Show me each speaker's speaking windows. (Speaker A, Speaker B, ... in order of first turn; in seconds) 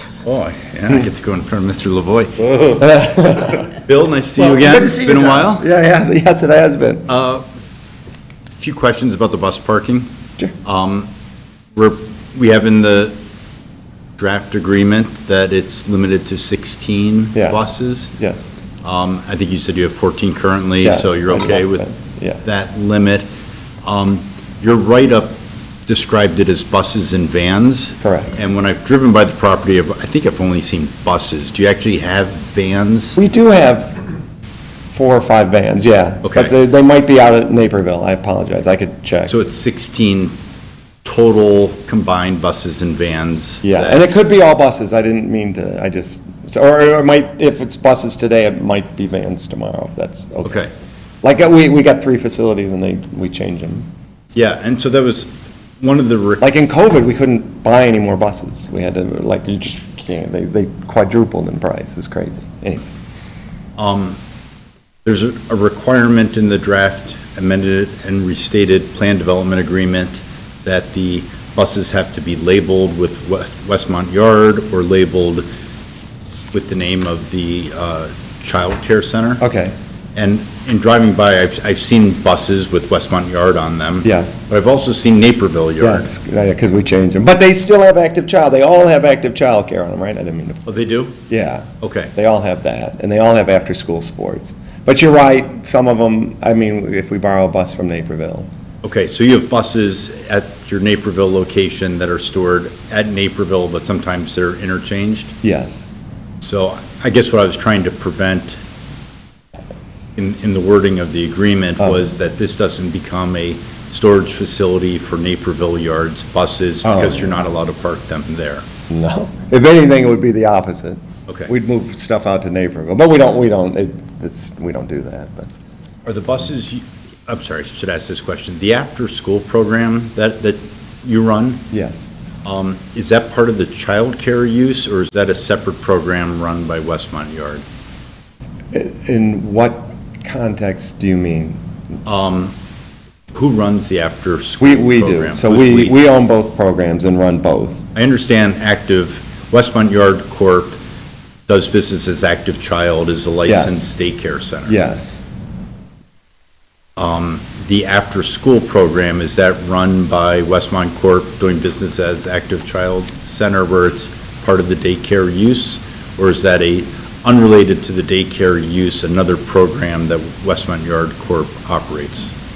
Speaker A: 0.2-2.9, 3.5-5.6, 7.1-7.4, 8.5-10.1, 10.6-11.1, 11.7-13.2, 14.2-18.1, 18.8-21.9, 22.4-23.3, 23.8-33.2, 36.2-36.5, 39.3-40.3, 41.0-44.0, 50.4-50.7, 54.3-56.4, 63.8-64.2, 65.0-75.4, 76.5-79.4, 80.1-86.1, 90.7-91.2, 91.8-92.1, 98.8-105.3, 106.4-108.6, 110.2-118.6, 126.0-131.6, 132.4-137.6, 142.0-142.5, 143.3-146.0, 147.9-150.8, 151.5-154.8, 157.0-172.3
Speaker B: 2.8-3.7, 4.4-7.1, 17.3-18.5, 20.8-22.4, 28.0-28.4, 33.1-34.0, 34.9-39.3, 43.6-50.7, 51.2-53.9, 56.4-62.9, 79.4-79.7, 84.0-84.4, 85.8-90.7, 91.3-98.5, 105.4-105.9, 116.8-117.4, 118.9-125.5, 131.7-132.1, 138.7-141.6, 144.6-147.8, 153.4-154.0, 154.6-155.2